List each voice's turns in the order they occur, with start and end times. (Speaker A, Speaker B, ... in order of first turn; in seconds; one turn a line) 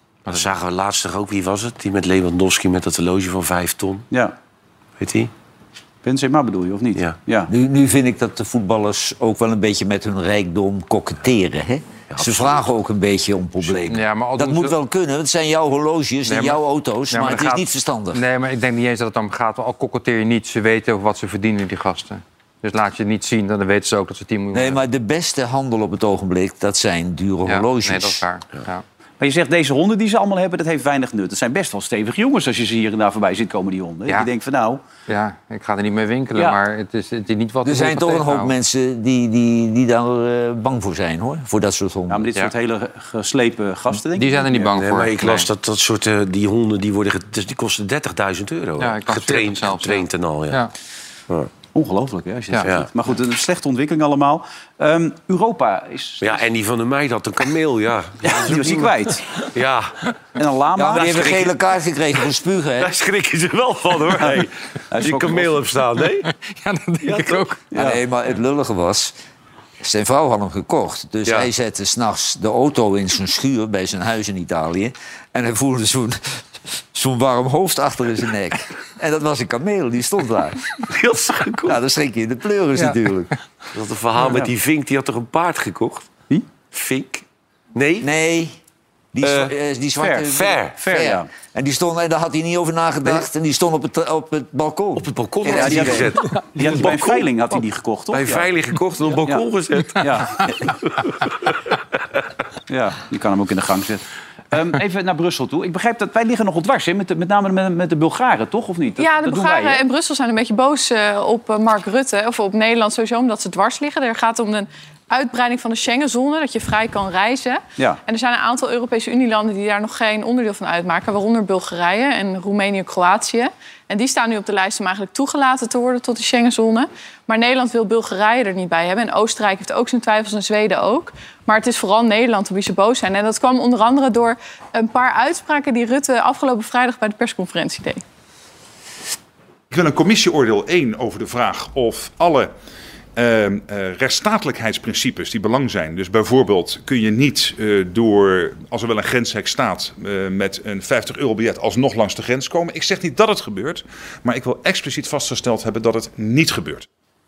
Speaker A: 0.3-4.1
Speaker A: 5.0-5.3
Speaker B: 6.0-7.5
Speaker C: 7.5-18.2
Speaker A: 12.1-12.6
Speaker D: 13.9-14.8
Speaker D: 16.2-24.8
Speaker C: 24.5-28.2
Speaker D: 27.4-28.8
Speaker B: 29.2-34.8
Speaker D: 35.1-38.5
Speaker C: 37.6-42.3
Speaker B: 42.1-44.7
Speaker D: 44.1-45.5
Speaker A: 44.8-50.6
Speaker D: 48.8-50.7
Speaker B: 51.7-56.4
Speaker A: 56.2-58.3
Speaker B: 58.2-59.2
Speaker D: 58.5-58.9
Speaker A: 59.5-59.9
Speaker B: 60.4-61.3
Speaker C: 60.8-62.9
Speaker A: 60.9-61.6
Speaker A: 62.8-66.3
Speaker B: 64.9-65.7
Speaker D: 66.2-67.7
Speaker B: 67.7-68.0
Speaker C: 67.8-69.1
Speaker C: 69.8-80.6
Speaker A: 80.8-81.8
Speaker C: 81.7-83.3
Speaker D: 82.8-83.0
Speaker A: 83.7-86.1
Speaker B: 84.2-84.5
Speaker A: 86.7-88.1
Speaker C: 88.0-88.5
Speaker C: 89.1-96.1
Speaker B: 89.2-89.5
Speaker B: 90.0-91.3
Speaker A: 90.2-90.8
Speaker A: 94.9-97.3
Speaker B: 95.5-98.5
Speaker A: 98.1-100.4
Speaker B: 100.0-100.5
Speaker B: 102.7-109.8
Speaker E: 109.0-138.0
Speaker F: 139.7-142.5
Speaker F: 143.1-156.8